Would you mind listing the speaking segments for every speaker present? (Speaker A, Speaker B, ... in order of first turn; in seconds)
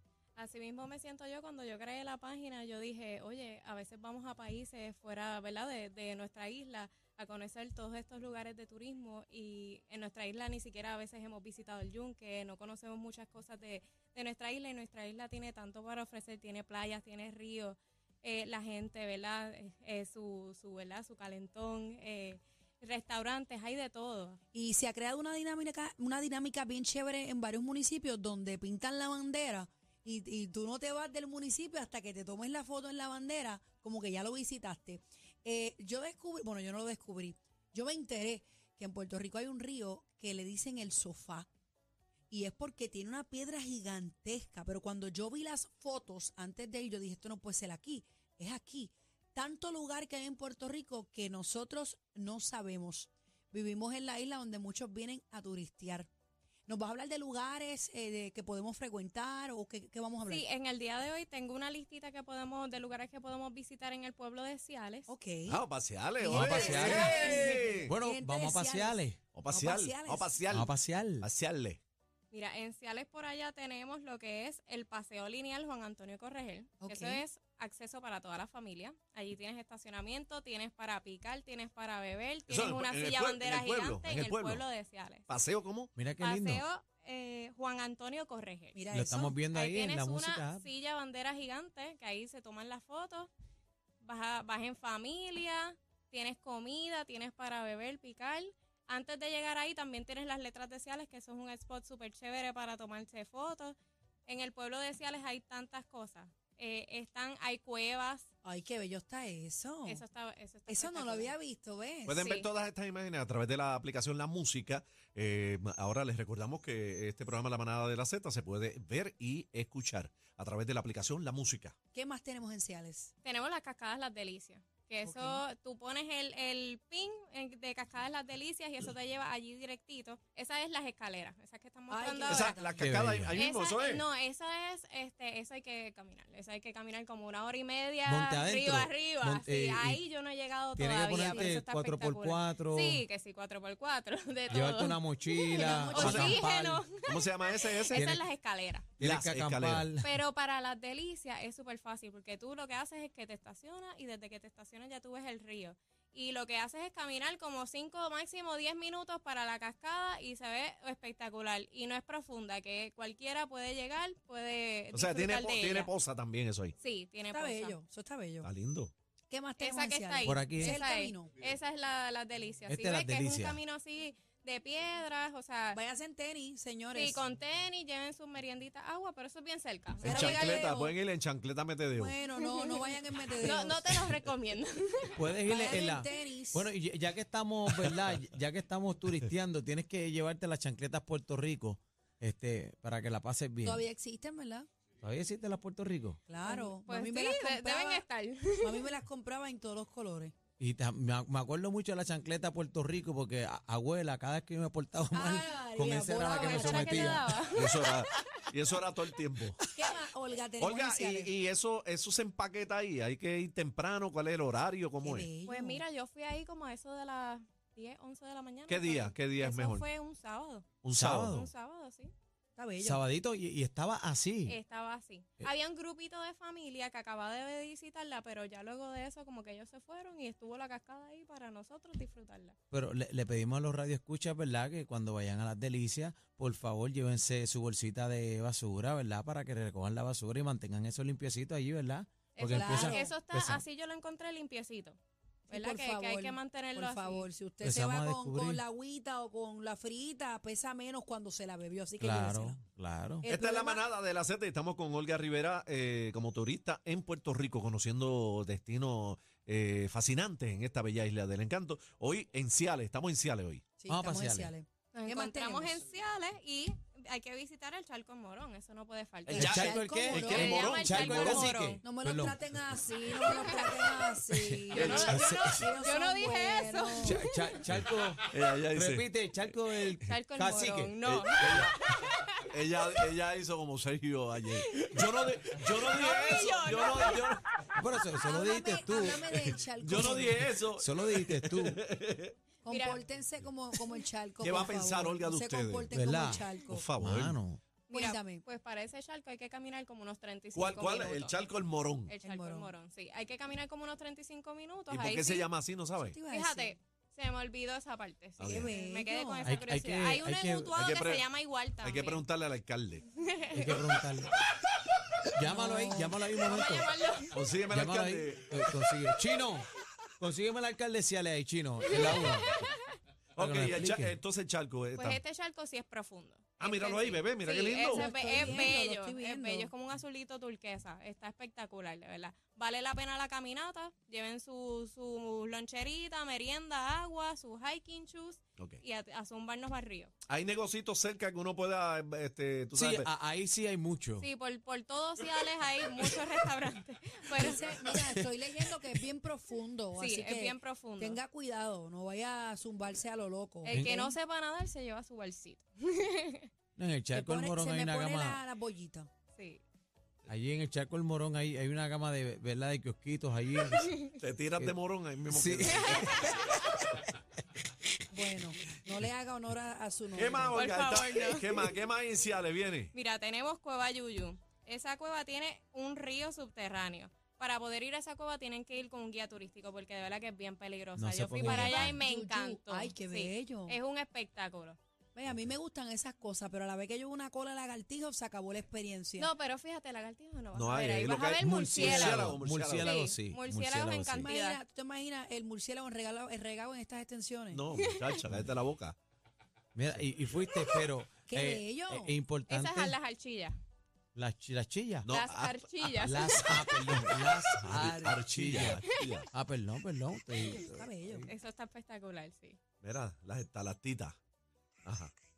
Speaker A: 0.4-24.4, 60.2-65.1, 66.6-67.3, 72.3-85.3, 86.2-88.8, 89.5-93.3, 94.0-103.8, 104.3-108.3, 109.8-111.3, 112.2-112.5, 123.2-132.6, 133.3-148.9, 150.0-165.9, 166.8-167.8, 169.6-175.8, 176.9-180.9, 182.3-185.8, 196.4-198.9, 206.3-208.0, 215.4-220.7, 221.3-222.1, 224.4-232.6, 242.3-245.0, 245.5-247.2, 264.9-271.8, 273.2-273.7, 274.7-277.6, 280.0-282.3, 284.5-287.4, 292.7-293.0, 297.9-301.4, 302.1-305.5, 306.3-312.3, 313.1-313.9, 316.4-317.4, 321.9-322.9, 324.9-340.1, 344.2-347.8, 349.9-351.2, 353.6-356.5, 359.4-359.6, 363.7-364.1, 365.7-366.5, 370.5-371.8, 372.9-384.8, 389.2-394.6, 397.7-398.2, 402.5-403.6, 405.1-407.0, 411.2-412.6
Speaker B: 24.5-41.5, 42.3-56.1, 56.7-60.4, 65.1-65.6, 66.2-70.3, 76.8-77.2, 88.7-89.4, 108.4-110.0, 110.7-112.2, 121.9-123.1, 125.0-125.4, 131.9-132.8, 145.5-146.4, 167.3-168.5, 169.3-171.3, 175.7-177.2, 180.0-180.9, 181.9-183.9, 185.4-186.7, 193.6-194.7, 196.3-198.0, 198.6-200.3, 205.1-207.2, 209.7-211.3, 215.0-215.8, 222.6-223.0, 242.5-243.1, 245.5-252.6, 253.2-253.9, 263.8-265.8, 269.4-270.6, 271.8-277.2, 288.2-290.5, 292.6-296.8, 297.9-298.4, 302.2-302.7, 306.1-306.8, 308.4-309.5, 315.4-316.2, 327.9-329.7, 347.4-354.0, 357.1-359.1, 368.1-370.6, 381.4-383.8, 385.1-389.3, 394.2-397.6, 401.3-402.1, 407.7-408.1, 410.5-411.3
Speaker C: 65.5-67.9, 69.3-71.8, 82.5-84.6, 85.3-85.9, 112.1-121.7, 132.3-134.1, 146.1-146.3, 147.0-148.1, 149.0-149.9, 164.9-166.7, 168.4-168.9, 180.0-182.1, 207.5-209.6, 210.6-215.3, 218.7-219.8, 220.8-221.4, 253.2-263.6, 269.2-271.7, 274.7-275.3, 277.7-279.5, 281.0-281.7, 282.5-287.4, 289.7-292.3, 294.4-295.9, 296.7-297.4, 300.5-302.1, 304.9-306.2, 308.4-308.7, 310.7-313.0, 317.3-318.7, 323.4-325.2, 326.6-328.3, 340.3-343.1, 364.2-366.3, 370.1-372.9, 390.5-392.9, 397.5-399.0, 405.0-409.3, 412.8-414.2, 414.8-415.1
Speaker D: 66.3-69.2, 70.5-71.3, 86.0-86.6, 88.9-90.6, 132.8-133.4, 138.0-140.0, 140.8-143.0, 144.5-146.8, 147.9-148.2, 149.0-150.1, 170.2-170.8, 172.7-173.6, 185.1-193.8, 195.0-196.2, 200.6-207.3, 220.9-221.5, 222.8-224.6, 232.7-243.6, 247.6-248.6, 252.0-253.3, 263.9-264.5, 269.3-272.9, 274.3-275.6, 277.0-280.9, 287.8-291.8, 295.9-297.6, 309.4-310.7, 313.5-314.3, 315.3-316.9, 317.7-319.7, 320.2-322.6, 323.4-324.2, 342.7-344.3, 347.8-348.3, 353.7-354.1, 356.8-358.4, 360.3-363.9, 365.3-366.6, 380.9-382.0, 391.4-394.3, 399.7-403.0, 404.1-405.1, 406.0-408.8, 409.3-411.3